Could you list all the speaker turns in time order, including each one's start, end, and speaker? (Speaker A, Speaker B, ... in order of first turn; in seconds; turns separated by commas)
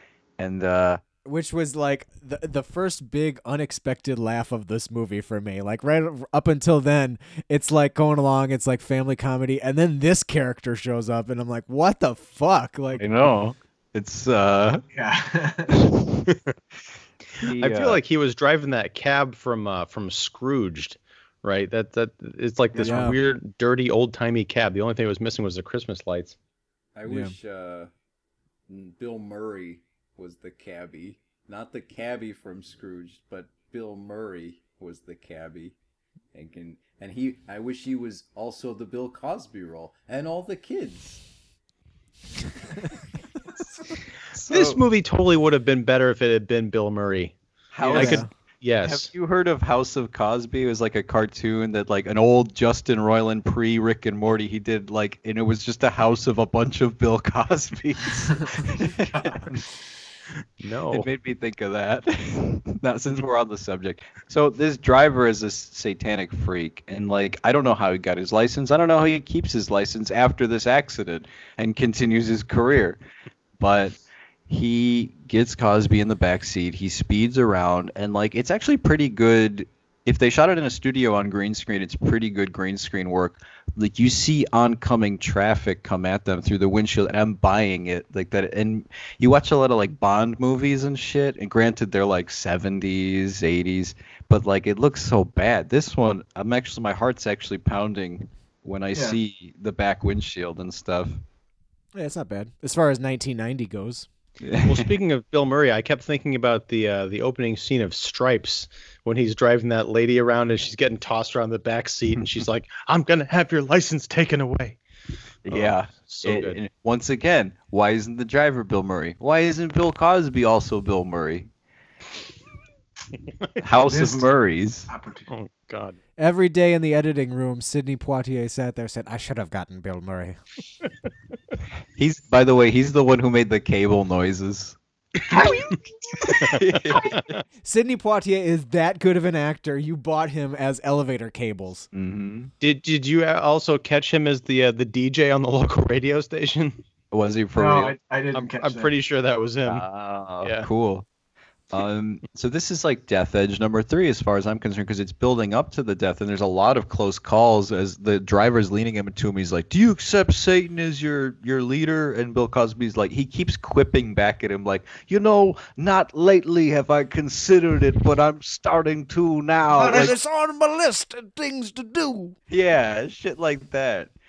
Speaker A: 0.4-1.0, Speaker B: 1.2-13.3, Speaker A: 13.0-14.8, Speaker C: 14.9-15.9, Speaker A: 15.7-16.4, Speaker A: 17.4-18.0, Speaker D: 17.6-26.4, Speaker B: 22.8-23.1, Speaker E: 27.0-27.9, Speaker B: 27.1-27.3, Speaker E: 28.7-35.7, Speaker E: 36.3-41.2, Speaker A: 43.8-44.8, Speaker D: 44.5-49.1, Speaker A: 47.7-48.3, Speaker B: 47.9-48.3, Speaker A: 48.8-59.7, Speaker C: 59.1-59.4, Speaker D: 60.6-61.1, Speaker A: 60.9-73.0, Speaker A: 73.6-74.0, Speaker A: 74.5-101.2, Speaker B: 101.9-104.1, Speaker A: 104.4-104.9, Speaker D: 104.6-114.8, Speaker A: 115.5-121.5, Speaker D: 115.5-116.6, Speaker A: 123.6-124.9, Speaker C: 123.8-124.3, Speaker C: 124.9-125.3, Speaker D: 125.3-126.0, Speaker B: 126.2-130.4, Speaker A: 132.0-134.8, Speaker C: 135.3-136.5, Speaker A: 135.3-135.7, Speaker A: 136.4-137.1, Speaker D: 136.5-137.4, Speaker B: 137.6-141.9, Speaker A: 141.9-142.5, Speaker D: 142.6-146.8, Speaker A: 147.1-147.9, Speaker C: 147.6-148.9, Speaker D: 148.3-149.8, Speaker A: 149.7-151.1, Speaker A: 151.7-170.2, Speaker C: 169.7-170.1, Speaker B: 169.8-172.3, Speaker A: 172.5-174.1